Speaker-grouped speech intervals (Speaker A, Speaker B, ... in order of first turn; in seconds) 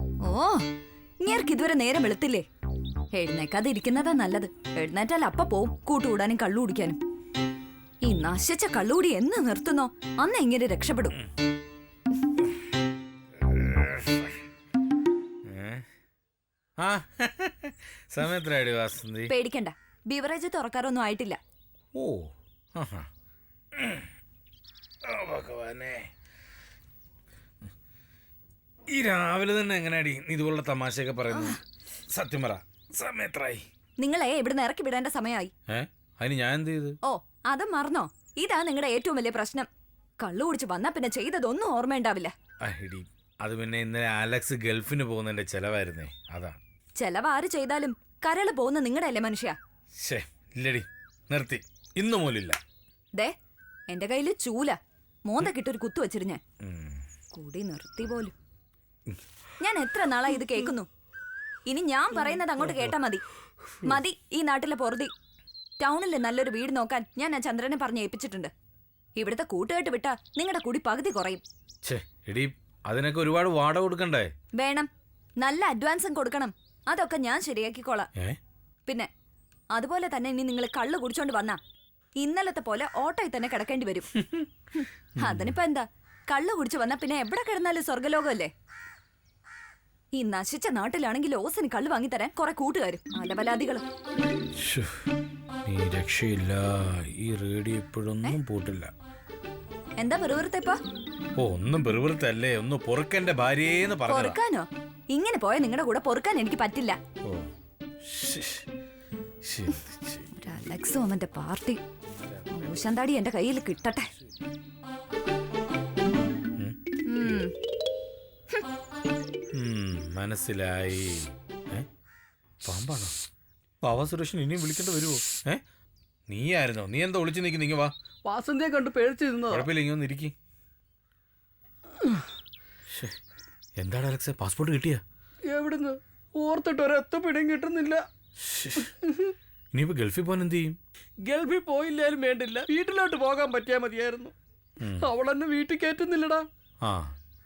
Speaker A: 0.2-0.7, 1.2-2.5, 3.1-7.0, 8.0-11.2, 19.3-21.4, 31.3-31.6, 34.0-35.5, 37.1-39.7, 40.2-42.3, 47.0-49.6, 53.9-56.4, 57.3-58.3, 59.6-60.9, 61.7-63.2, 63.8-65.1, 65.8-68.5, 69.2-71.4, 74.6-74.9, 75.4-78.1, 79.7-81.6, 82.2-84.1, 84.8-88.5, 90.2-93.8, 100.0-100.8, 104.1-107.0, 110.4-111.8, 112.5-114.1, 117.1-117.5
Speaker B: 13.5-14.3, 15.5-15.8, 16.8-19.3, 21.9-23.1, 23.8-24.1, 25.0-26.1, 28.9-31.6, 32.1-33.6, 35.7-37.0, 42.6-46.6, 50.0-52.6, 56.6-57.0, 71.8-74.3, 84.2-84.5, 85.2-85.5, 94.6-94.9, 95.7-98.9, 101.4-104.4, 108.1-108.7, 109.5-110.3, 112.3-112.7, 119.5-121.9, 122.6-123.2, 123.8-125.6, 126.3-127.9, 129.5-130.3, 133.8-135.0, 138.4-138.8, 139.7-140.8, 144.8-145.1
Speaker C: 128.3-129.7, 135.5-138.0, 138.8-139.3, 141.3-144.3, 145.0-146.4